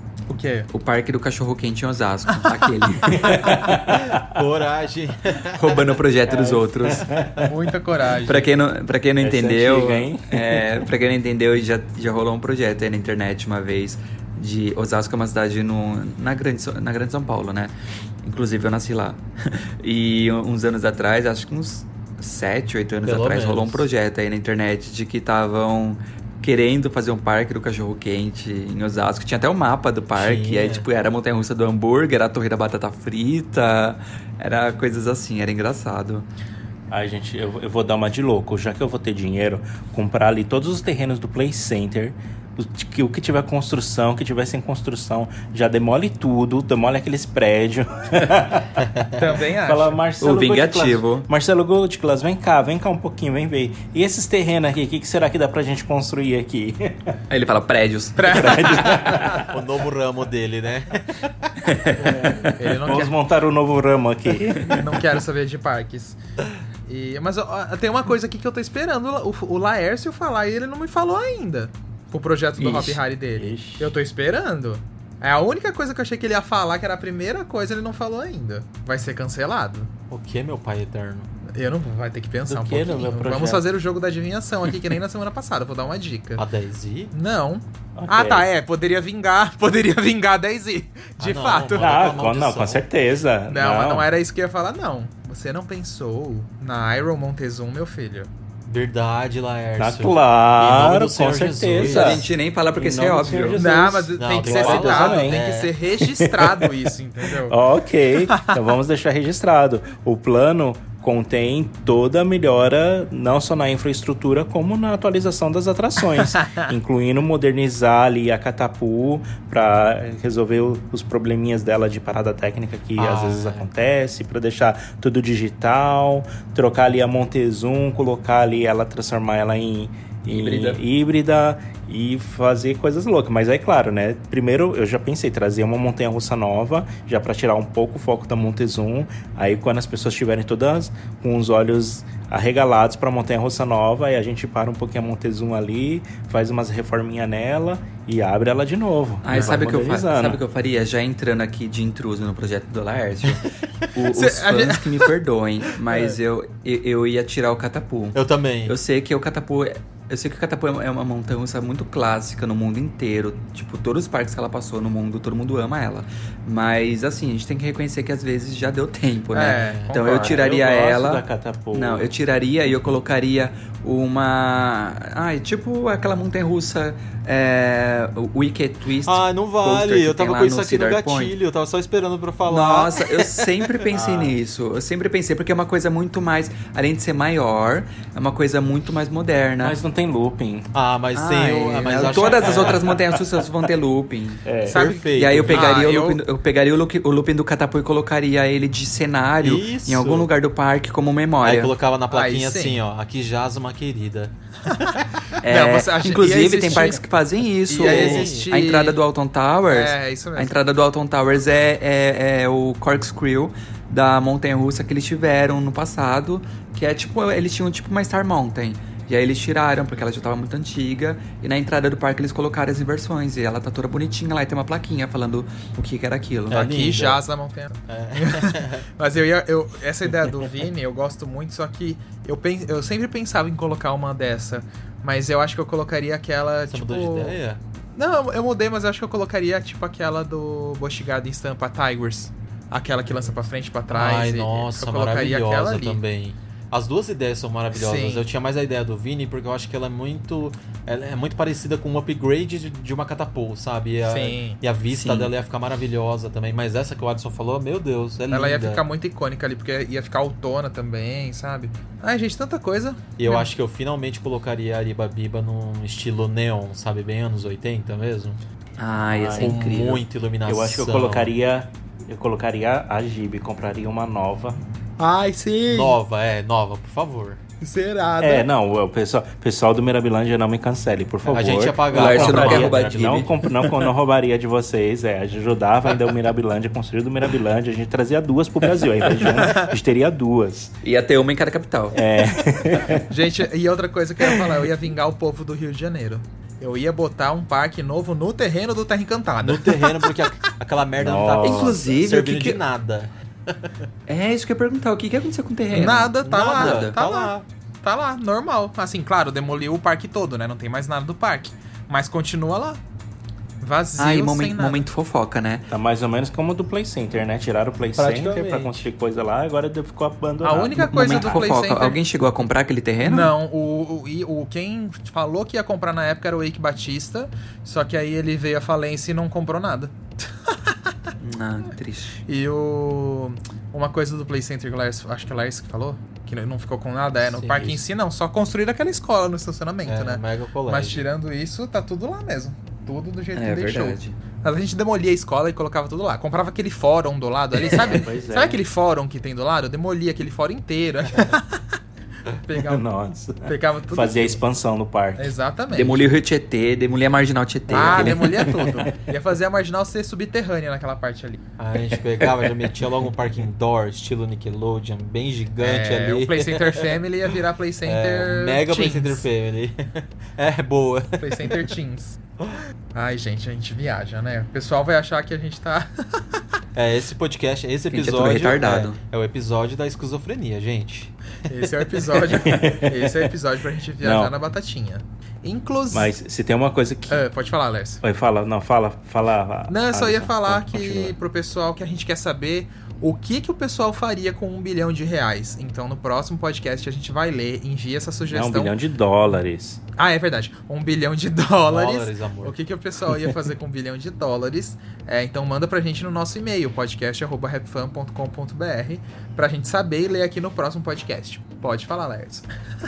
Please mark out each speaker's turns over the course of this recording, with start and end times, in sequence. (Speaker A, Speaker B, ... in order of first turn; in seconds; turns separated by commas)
Speaker A: 0.3-0.7, Speaker B: 0.7-3.5, Speaker C: 3.1-4.2, Speaker D: 3.9-5.8, Speaker B: 5.6-7.1, Speaker D: 6.3-6.6, Speaker C: 6.9-7.5, Speaker A: 7.5-8.5, Speaker B: 8.2-17.7, Speaker C: 9.2-10.9, Speaker B: 18.2-36.3, Speaker D: 23.0-23.8, Speaker D: 30.1-30.8, Speaker C: 36.9-48.7, Speaker A: 49.2-50.0, Speaker C: 49.5-57.2, Speaker B: 50.2-51.3, Speaker B: 57.3-59.0, Speaker A: 58.1-59.4, Speaker C: 58.3-59.4, Speaker D: 59.5-61.5, Speaker C: 62.0-65.0, Speaker B: 62.0-62.5, Speaker A: 62.6-63.1, Speaker A: 64.7-66.2, Speaker A: 66.9-79.9, Speaker B: 72.6-73.0, Speaker C: 73.4-73.9, Speaker D: 80.1-81.3, Speaker A: 81.5-86.5, Speaker C: 82.5-83.6, Speaker D: 86.4-87.1, Speaker A: 87.1-92.0, Speaker C: 88.0-88.5, Speaker D: 91.2-92.8, Speaker C: 91.7-94.1, Speaker A: 93.5-98.3, Speaker D: 98.7-102.3, Speaker C: 99.8-105.4, Speaker B: 101.8-103.6, Speaker A: 103.5-107.5, Speaker D: 104.2-105.7, Speaker C: 106.0-106.7, Speaker C: 107.3-150.4, Speaker A: 108.3-108.5, Speaker A: 116.2-116.6, Speaker D: 123.0-123.7, Speaker B: 130.3-130.8, Speaker B: 149.2-181.3, Speaker A: 154.1-155.0, Speaker D: 158.1-158.8, Speaker A: 169.3-170.3, Speaker C: 170.0-172.1, Speaker D: 179.0-184.3, Speaker B: 182.5-189.8, Speaker C: 189.6-190.7, Speaker D: 190.7-192.9, Speaker B: 191.1-194.5, Speaker A: 191.7-192.2, Speaker C: 192.4-193.2, Speaker C: 194.4-195.6, Speaker A: 194.7-196.2, Speaker D: 194.7-195.8, Speaker B: 195.1-201.7, Speaker D: 199.4-200.3, Speaker D: 201.4-204.7, Speaker A: 202.1-202.8, Speaker A: 204.7-207.0, Speaker B: 205.4-226.6, Speaker A: 207.7-209.0, Speaker D: 207.8-208.5, Speaker A: 209.7-210.5, Speaker D: 226.5-227.2, Speaker A: 226.5-237.4, Speaker D: 227.9-228.8, Speaker D: 236.7-237.6, Speaker A: 237.9-246.0, Speaker D: 243.9-258.8, Speaker A: 247.7-248.3, Speaker A: 254.0-254.6, Speaker B: 254.9-255.3, Speaker A: 258.3-263.5, Speaker D: 263.2-268.4, Speaker B: 268.8-270.0, Speaker C: 269.1-269.6, Speaker D: 269.4-271.3, Speaker C: 270.5-274.6, Speaker A: 275.0-276.0, Speaker D: 275.7-277.4, Speaker A: 277.6-278.4, Speaker C: 278.2-290.7, Speaker D: 281.2-283.2, Speaker B: 281.9-283.3, Speaker A: 289.3-289.7, Speaker B: 290.8-292.0, Speaker C: 291.9-293.1, Speaker A: 293.1-300.5, Speaker D: 299.4-303.7, Speaker C: 301.0-301.8, Speaker B: 301.4-302.6, Speaker B: 304.1-307.0, Speaker A: 305.7-312.8, Speaker D: 306.2-307.4, Speaker A: 313.6-314.8, Speaker B: 314.0-315.7, Speaker C: 315.7-321.6, Speaker D: 318.0-318.6, Speaker A: 318.2-318.8, Speaker A: 320.4-322.0, Speaker B: 320.8-323.3, Speaker A: 323.0-329.9, Speaker A: 330.4-330.9, Speaker B: 331.2-332.2, Speaker A: 332.3-351.6, Speaker D: 337.2-337.8, Speaker D: 339.8-341.0, Speaker B: 343.3-344.2, Speaker C: 347.7-348.6, Speaker A: 352.5-352.8, Speaker C: 352.5-355.4, Speaker A: 353.4-354.4, Speaker A: 355.2-356.0, Speaker B: 355.7-358.3, Speaker D: 357.7-358.9, Speaker A: 357.7-361.4, Speaker C: 357.8-358.9, Speaker D: 361.6-366.9, Speaker A: 365.6-369.2, Speaker D: 367.8-371.7, Speaker A: 371.2-372.2, Speaker A: 372.9-376.4, Speaker D: 376.8-381.1, Speaker B: 377.9-379.0, Speaker A: 381.5-386.1, Speaker C: 382.3-383.3, Speaker C: 384.0-384.3, Speaker C: 385.9-387.3, Speaker A: 387.1-388.0, Speaker C: 388.0-391.2, Speaker A: 389.7-398.7, Speaker C: 398.3-399.8, Speaker A: 400.0-412.4, Speaker D: 401.7-402.6